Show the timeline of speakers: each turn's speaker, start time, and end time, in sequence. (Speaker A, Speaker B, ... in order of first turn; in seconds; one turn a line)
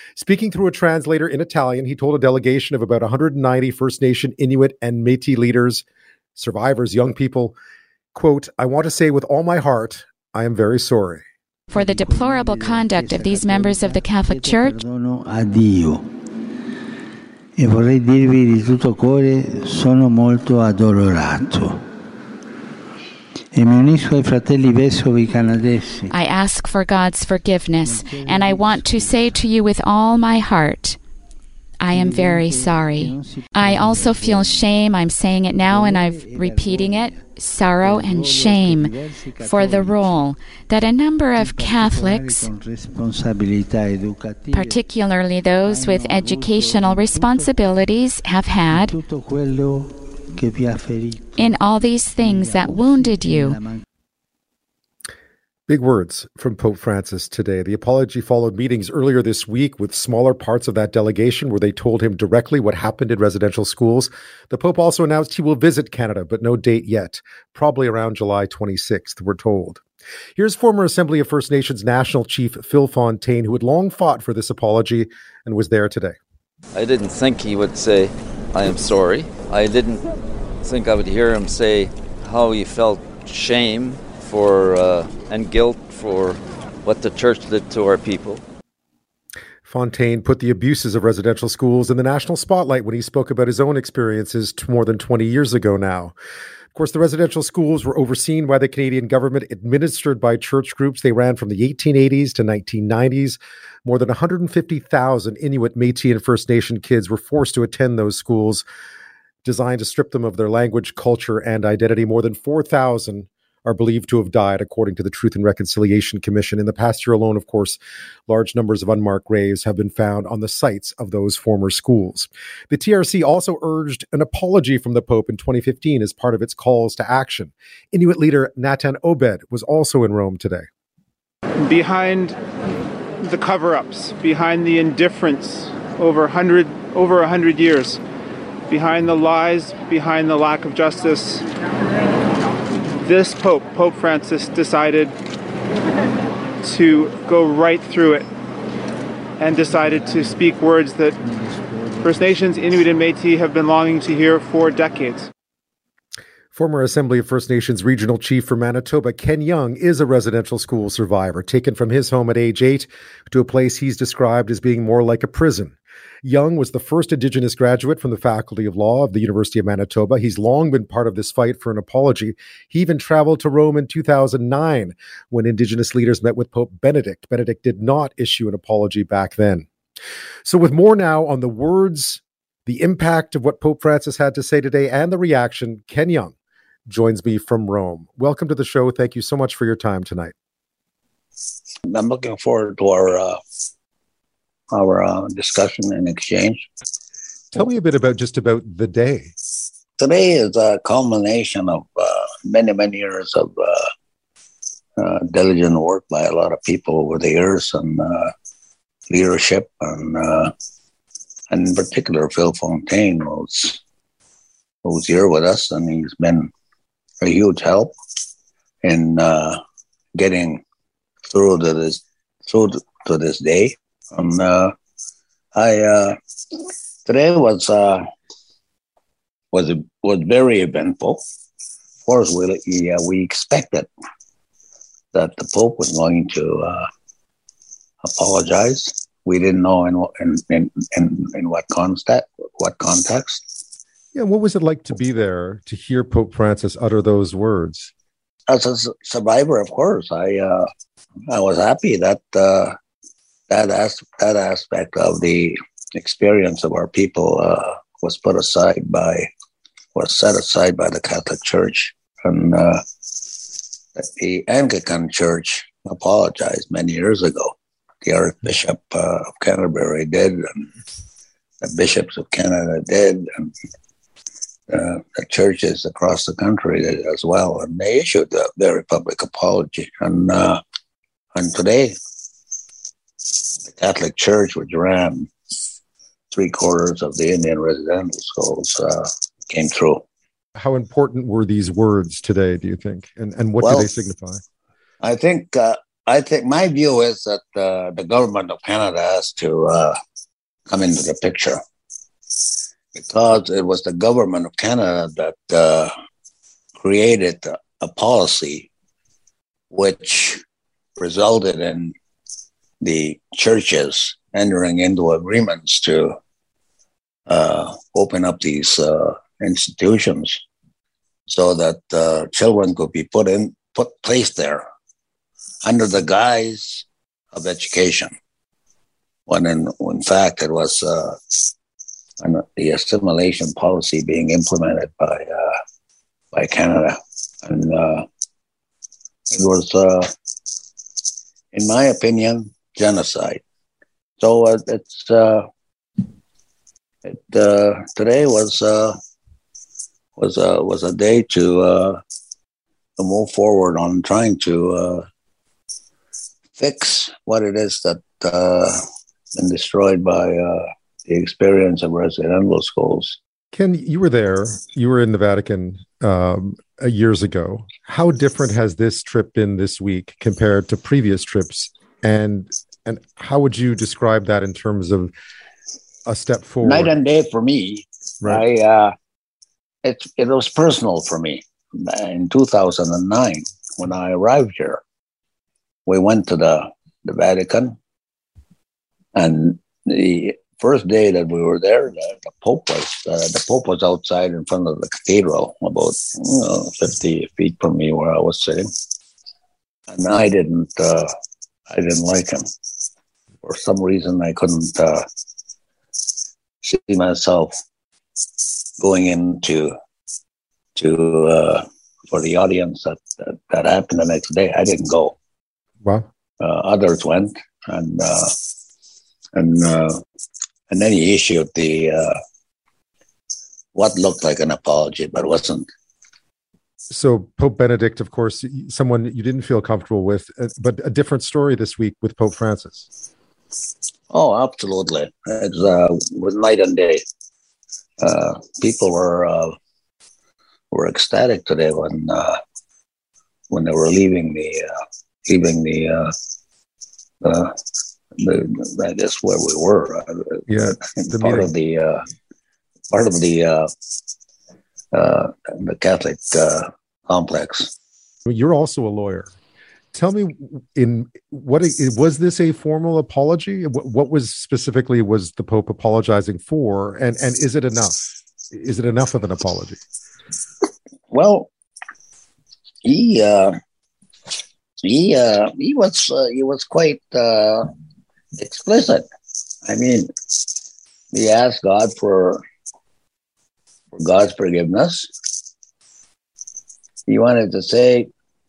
Speaker A: 0.2-7.6
Speaker A: 8.1-11.2
Speaker B: 11.7-14.8
Speaker C: 11.7-16.1
Speaker C: 17.6-21.9
Speaker C: 23.5-26.1
Speaker B: 26.1-31.0
Speaker C: 27.8-29.3
Speaker B: 31.8-42.5
Speaker C: 31.9-34.7
Speaker C: 35.6-40.3
Speaker C: 41.4-44.8
Speaker B: 44.5-49.0
Speaker C: 45.6-47.5
Speaker C: 48.7-51.6
Speaker B: 51.4-53.6
Speaker C: 52.2-53.8
Speaker A: 55.7-69.8
Speaker A: 70.4-76.2
Speaker D: 76.7-80.0
Speaker D: 80.6-88.4
Speaker A: 89.7-96.1
Speaker A: 96.7-108.6
Speaker A: 109.4-130.7
Speaker E: 131.6-132.4
Speaker E: 133.2-138.0
Speaker E: 138.7-141.4
Speaker E: 143.0-145.2
Speaker E: 146.6-148.3
Speaker E: 149.4-151.2
Speaker C: 149.7-150.5
Speaker C: 151.2-152.4
Speaker E: 152.0-155.3
Speaker A: 156.5-179.7
Speaker A: 180.4-186.3
Speaker A: 186.9-190.3
Speaker F: 191.9-193.4
Speaker F: 194.7-196.7
Speaker A: 197.5-199.3
Speaker F: 200.0-203.8
Speaker F: 205.0-208.3
Speaker F: 209.1-210.5
Speaker F: 211.5-213.8
Speaker F: 214.8-216.5
Speaker F: 217.2-217.9
Speaker F: 218.8-219.6
Speaker F: 220.2-220.6
Speaker F: 221.3-224.7
Speaker F: 225.6-226.2
Speaker F: 227.1-228.0
Speaker F: 229.5-231.2
Speaker F: 232.1-233.9
Speaker F: 235.1-236.8
Speaker F: 238.0-243.5
Speaker A: 244.1-247.9
Speaker F: 248.5-250.7
Speaker F: 251.3-252.7
Speaker F: 253.5-259.3
Speaker F: 259.9-262.8
Speaker F: 264.0-270.7
Speaker F: 271.6-273.5
Speaker F: 274.7-280.6
Speaker F: 281.4-282.0
Speaker F: 283.6-285.3
Speaker F: 286.3-290.0
Speaker A: 290.6-294.4
Speaker F: 293.6-293.9
Speaker F: 295.0-299.9
Speaker F: 300.7-301.6
Speaker F: 302.9-305.9
Speaker F: 306.8-308.7
Speaker F: 309.7-310.4
Speaker F: 311.0-311.9
Speaker F: 312.8-316.2
Speaker F: 317.3-320.4
Speaker F: 321.3-324.6
Speaker F: 325.6-328.1
Speaker F: 329.3-331.3
Speaker F: 332.2-335.6
Speaker F: 336.3-338.1
Speaker F: 339.3-340.1
Speaker F: 341.5-343.4
Speaker F: 344.2-345.5
Speaker F: 347.0-348.9
Speaker F: 350.2-352.0
Speaker F: 353.0-355.0
Speaker F: 356.6-358.8
Speaker F: 359.4-363.2
Speaker A: 363.5-375.1
Speaker A: 376.1-377.0
Speaker F: 376.6-378.9
Speaker F: 379.8-384.8
Speaker F: 385.9-387.8
Speaker F: 389.1-398.7
Speaker F: 399.9-401.1
Speaker F: 401.7-402.4
Speaker F: 403.4-405.1
Speaker F: 406.6-407.5
Speaker F: 408.8-409.7
Speaker F: 410.8-415.2
Speaker F: 416.4-418.3
Speaker F: 419.4-420.0
Speaker F: 420.7-422.1
Speaker F: 423.8-425.7
Speaker A: 426.9-432.9
Speaker F: 434.1-437.0
Speaker F: 438.0-439.5
Speaker F: 440.7-442.4
Speaker F: 443.5-444.7
Speaker F: 445.3-446.1
Speaker F: 447.2-447.5
Speaker F: 448.2-452.0
Speaker A: 450.5-451.5
Speaker F: 452.9-453.7
Speaker F: 454.9-457.7
Speaker A: 458.3-459.3
Speaker A: 459.9-469.8
Speaker F: 471.1-471.5
Speaker F: 472.8-473.5
Speaker F: 474.8-477.7
Speaker F: 478.4-479.0
Speaker F: 479.6-480.1
Speaker F: 481.1-482.4
Speaker F: 483.9-485.1
Speaker F: 487.1-488.1